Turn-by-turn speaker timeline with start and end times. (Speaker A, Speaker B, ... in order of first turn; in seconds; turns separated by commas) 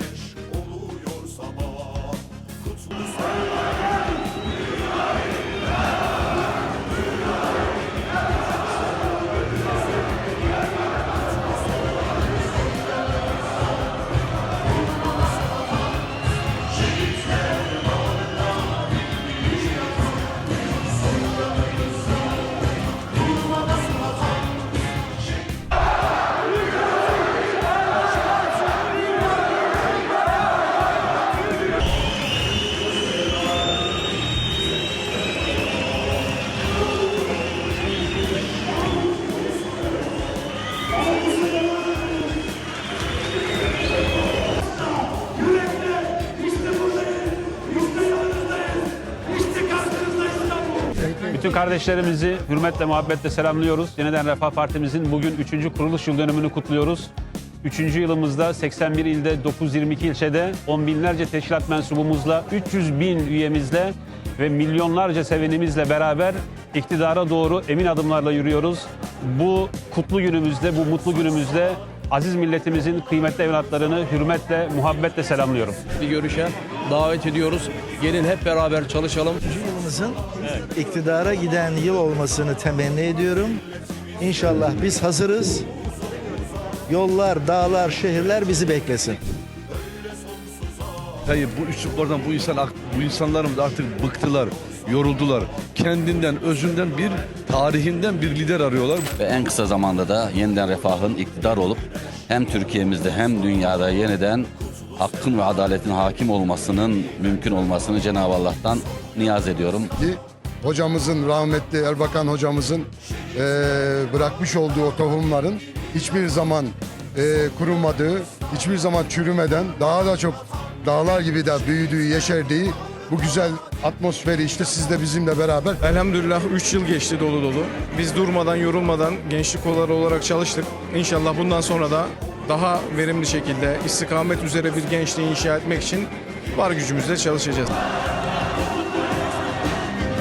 Speaker A: 51.2-57.1, Speaker A: 57.6-75.8, Speaker B: 76.0-79.4, Speaker C: 79.5-83.6, Speaker C: 84.2-85.7, Speaker C: 86.9-89.2, Speaker D: 91.3-99.1, Speaker E: 99.2-109.9, Speaker F: 110.0-125.8, Speaker G: 125.8-137.7